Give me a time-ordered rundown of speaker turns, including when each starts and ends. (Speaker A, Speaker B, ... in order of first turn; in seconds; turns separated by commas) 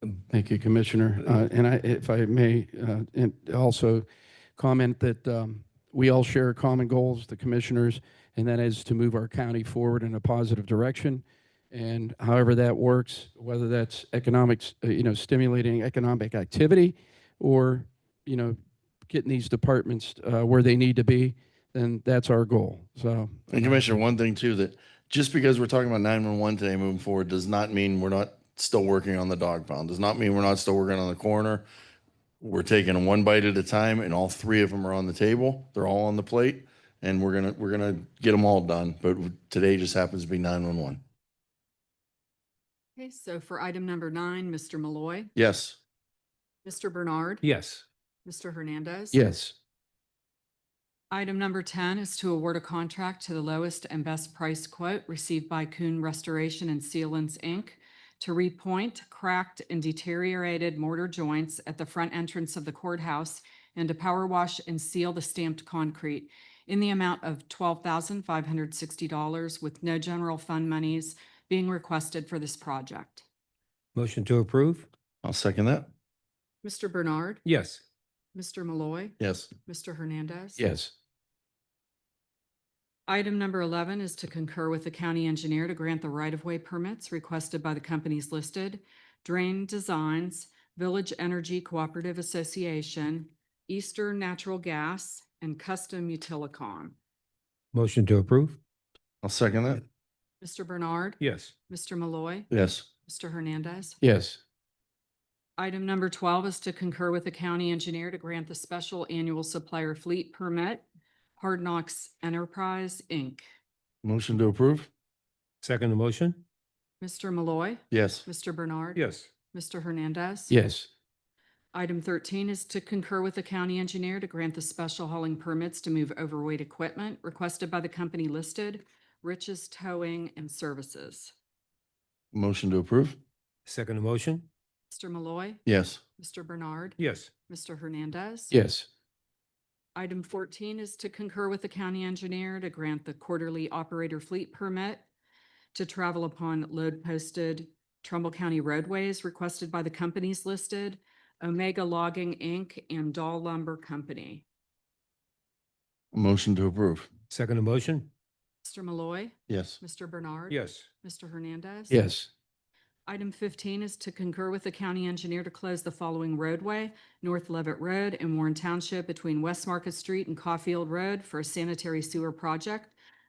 Speaker A: 0.3-4.0, Speaker A: 4.6-18.6, Speaker A: 19.1-23.9, Speaker B: 23.5-31.7, Speaker B: 32.4-41.0, Speaker C: 43.0-45.3, Speaker B: 45.4-45.8, Speaker C: 46.6-47.4, Speaker D: 47.4-47.8, Speaker C: 48.2-49.2, Speaker A: 49.1-49.5, Speaker C: 51.1-73.2, Speaker D: 74.0-74.9, Speaker B: 75.2-75.9, Speaker C: 76.6-77.4, Speaker D: 77.5-77.8, Speaker C: 78.3-80.6, Speaker B: 79.2-79.5, Speaker A: 80.6-80.9, Speaker C: 83.1-97.0, Speaker D: 97.7-98.6, Speaker B: 99.2-99.8, Speaker C: 100.4-102.5, Speaker D: 101.2-101.5, Speaker B: 102.5-102.9, Speaker C: 103.1-104.0, Speaker A: 104.0-104.4, Speaker C: 105.6-110.8, Speaker C: 111.4-113.4, Speaker B: 114.0-114.9, Speaker D: 115.6-116.4, Speaker C: 117.0-120.5, Speaker B: 117.9-118.2, Speaker D: 119.0-119.3, Speaker A: 120.5-120.9, Speaker C: 121.7-131.3, Speaker B: 132.3-133.2, Speaker D: 133.7-134.5, Speaker C: 134.9-135.6, Speaker B: 135.7-136.0, Speaker C: 136.2-138.5, Speaker D: 137.0-137.3, Speaker A: 138.5-138.9, Speaker C: 139.9-145.1, Speaker C: 145.8-154.4, Speaker B: 156.1-157.1, Speaker D: 157.3-158.1, Speaker C: 158.6-162.0, Speaker B: 159.5-159.8, Speaker D: 160.5-160.8, Speaker A: 161.9-162.3, Speaker C: 163.1-172.9